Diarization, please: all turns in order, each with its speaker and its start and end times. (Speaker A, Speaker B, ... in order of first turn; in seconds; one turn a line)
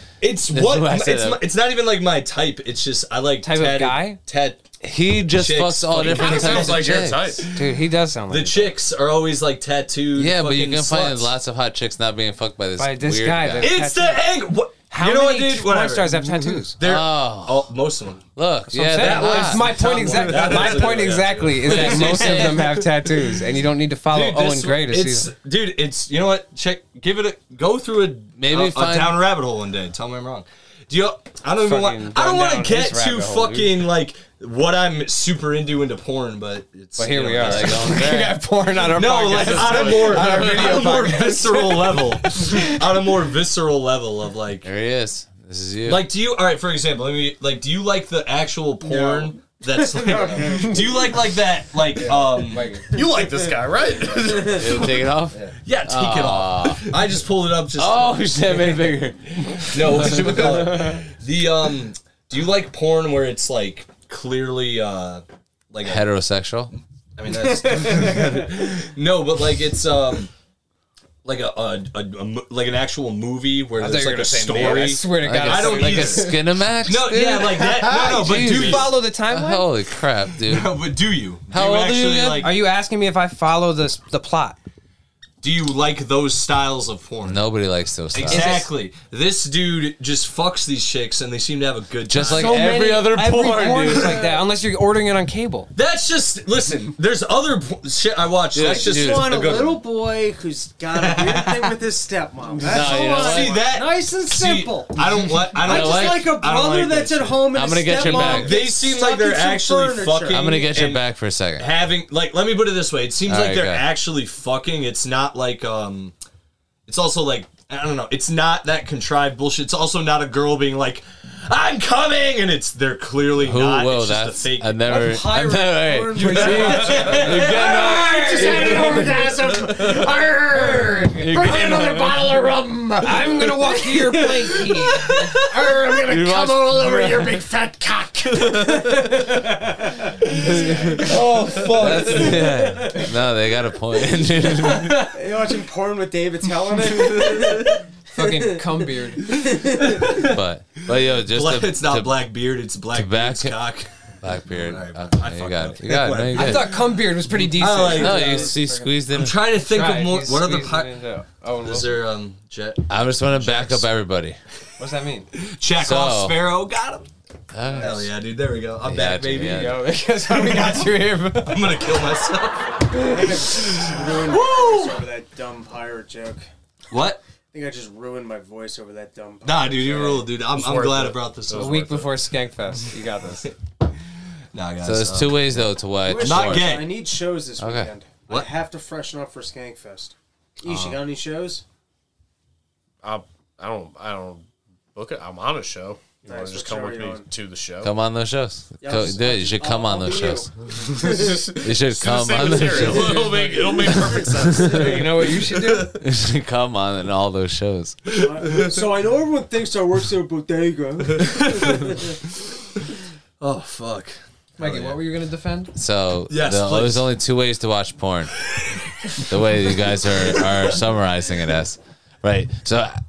Speaker A: 0.2-4.7
Speaker B: 0.5-1.4
Speaker C: 3.4-4.2
Speaker B: 4.8-7.3
Speaker A: 5.3-11.3
Speaker D: 6.0-7.5
Speaker C: 7.5-8.8
Speaker B: 10.2-13.7
Speaker C: 12.8-14.3
Speaker A: 13.6-18.2
Speaker C: 14.9-16.8
Speaker B: 16.8-17.7
Speaker B: 18.4-19.9
Speaker C: 18.7-25.3
Speaker A: 18.8-23.4
Speaker B: 21.6-22.6
Speaker A: 24.1-38.1
Speaker B: 28.4-29.2
Speaker C: 31.6-33.8
Speaker C: 37.0-42.7
Speaker B: 37.3-38.4
Speaker A: 38.8-44.7
Speaker D: 39.6-40.2
Speaker B: 40.2-40.7
Speaker B: 44.6-46.0
Speaker A: 45.9-52.9
Speaker E: 48.8-51.2
Speaker C: 52.0-52.9
Speaker D: 52.9-54.9
Speaker E: 54.2-54.9
Speaker B: 54.4-56.9
Speaker A: 55.6-59.0
Speaker B: 57.8-61.0
Speaker A: 59.6-66.0
Speaker B: 65.8-66.7
Speaker A: 67.2-70.3
Speaker E: 67.4-68.5
Speaker A: 71.2-79.0
Speaker C: 73.8-76.4
Speaker B: 75.0-80.8
Speaker C: 77.7-79.6
Speaker A: 80.4-82.5
Speaker B: 81.5-82.5
Speaker C: 82.4-84.6
Speaker A: 85.4-87.4
Speaker B: 87.2-88.6
Speaker A: 88.1-92.9
Speaker C: 88.3-88.7
Speaker B: 92.1-94.2
Speaker C: 92.3-95.7
Speaker A: 93.5-94.2
Speaker E: 93.9-94.4
Speaker A: 95.7-99.8
Speaker B: 98.5-99.5
Speaker E: 98.6-110.7
Speaker A: 100.9-101.8
Speaker B: 102.6-103.6
Speaker A: 102.7-116.1
Speaker B: 105.6-106.3
Speaker B: 107.5-108.6
Speaker B: 110.3-111.7
Speaker B: 113.3-113.8
Speaker A: 116.9-124.8
Speaker B: 123.4-129.3
Speaker E: 124.8-143.1
Speaker A: 126.2-127.9
Speaker C: 128.0-128.7
Speaker B: 131.3-132.0
Speaker C: 133.0-135.4
Speaker B: 136.1-137.4
Speaker C: 140.5-141.0
Speaker A: 141.0-142.6
Speaker B: 141.8-145.1
Speaker E: 144.8-148.7
Speaker A: 147.2-147.5
Speaker C: 148.1-149.4
Speaker E: 149.2-150.2
Speaker A: 149.5-150.4
Speaker B: 150.2-152.2
Speaker A: 151.2-158.5
Speaker B: 152.9-153.6
Speaker B: 154.2-156.8
Speaker C: 156.3-158.9
Speaker B: 157.9-159.4
Speaker A: 159.1-161.0
Speaker C: 159.5-162.0
Speaker A: 161.6-163.9
Speaker B: 162.9-164.4
Speaker C: 164.8-165.3
Speaker A: 165.3-167.1
Speaker B: 165.8-166.4
Speaker B: 167.5-168.0
Speaker A: 167.7-175.0
Speaker B: 168.8-169.8
Speaker C: 169.3-171.8
Speaker E: 172.9-176.5
Speaker A: 176.9-177.2
Speaker E: 177.5-180.2
Speaker A: 179.4-182.1
Speaker D: 180.4-182.1
Speaker C: 181.5-183.5
Speaker A: 184.5-186.9
Speaker B: 184.8-186.8
Speaker E: 186.0-191.6
Speaker B: 187.6-187.9
Speaker B: 190.7-190.9
Speaker D: 193.0-197.9
Speaker E: 196.2-197.3
Speaker B: 197.8-200.5
Speaker E: 198.8-201.4
Speaker D: 200.9-205.7
Speaker B: 201.6-204.8
Speaker C: 202.8-203.5
Speaker E: 203.0-203.3
Speaker C: 204.5-206.0
Speaker B: 206.0-208.0
Speaker E: 208.1-212.2
Speaker A: 208.1-208.7
Speaker A: 211.1-212.0
Speaker A: 213.4-215.0
Speaker C: 214.6-215.7
Speaker B: 215.8-218.3
Speaker A: 216.3-217.1
Speaker A: 218.4-220.8
Speaker B: 219.2-223.0